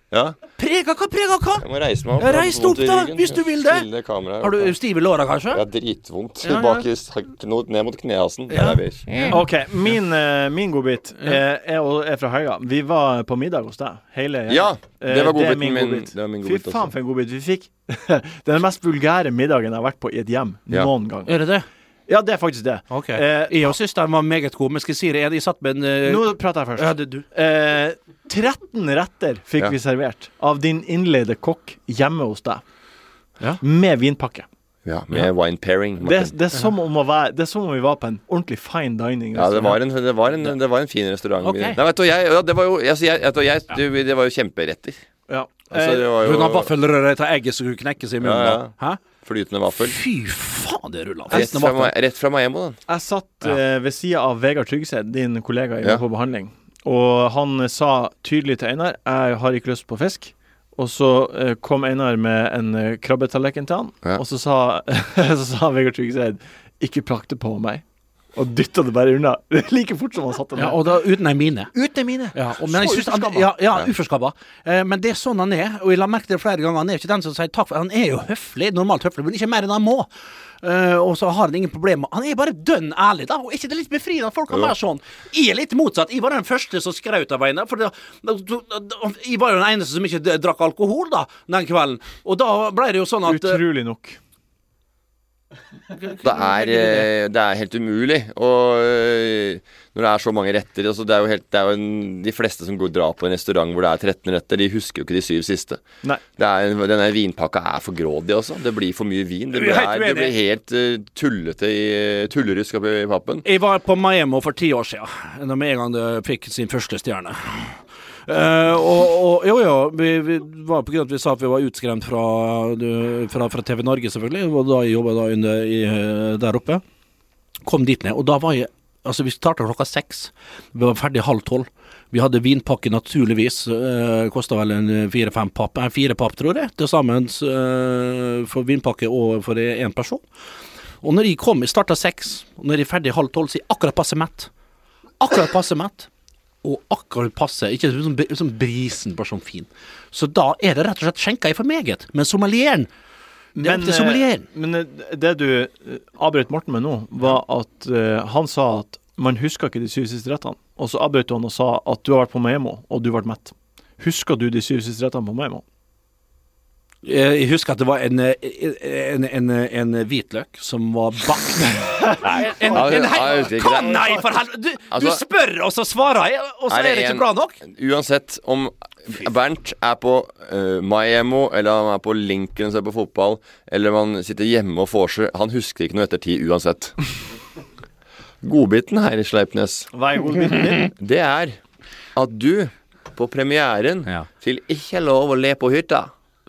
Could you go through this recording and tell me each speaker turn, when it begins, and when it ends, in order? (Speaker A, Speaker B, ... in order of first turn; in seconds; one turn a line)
Speaker A: 0.1-0.4
Speaker B: 0.6-1.6
Speaker A: 1.6-4.8
Speaker B: 2.2-3.9
Speaker B: 4.4-5.6
Speaker A: 5.5-9.4
Speaker B: 6.4-6.8
Speaker B: 8.5-9.4
Speaker C: 9.3-21.3
Speaker A: 14.5-16.9
Speaker B: 21.2-21.6
Speaker C: 22.1-23.7
Speaker B: 22.9-26.2
Speaker C: 26.1-32.6
Speaker B: 26.8-27.2
Speaker C: 33.6-34.5
Speaker A: 34.8-36.3
Speaker C: 36.0-39.8
Speaker A: 39.3-45.0
Speaker B: 41.4-41.8
Speaker C: 45.3-46.1
Speaker A: 45.7-46.7
Speaker B: 46.2-49.0
Speaker A: 48.2-50.0
Speaker B: 49.7-51.9
Speaker A: 51.3-52.8
Speaker C: 52.9-67.8
Speaker C: 68.3-70.8
Speaker B: 70.5-71.7
Speaker C: 71.7-73.5
Speaker B: 72.3-80.1
Speaker B: 80.6-93.6
Speaker C: 93.2-94.2
Speaker B: 96.0-97.1
Speaker A: 96.2-105.8
Speaker A: 106.3-113.4
Speaker B: 109.5-110.3
Speaker B: 113.4-126.8
Speaker B: 127.6-140.2
Speaker B: 141.0-144.5
Speaker B: 145.2-146.1
Speaker B: 146.6-152.9
Speaker C: 153.6-165.6
Speaker B: 153.6-154.4
Speaker B: 167.0-177.6
Speaker C: 171.8-173.3
Speaker A: 172.2-174.2
Speaker A: 174.9-175.2
Speaker A: 176.7-187.0
Speaker A: 188.4-189.9
Speaker C: 189.9-190.9
Speaker A: 190.9-191.6
Speaker A: 192.2-196.1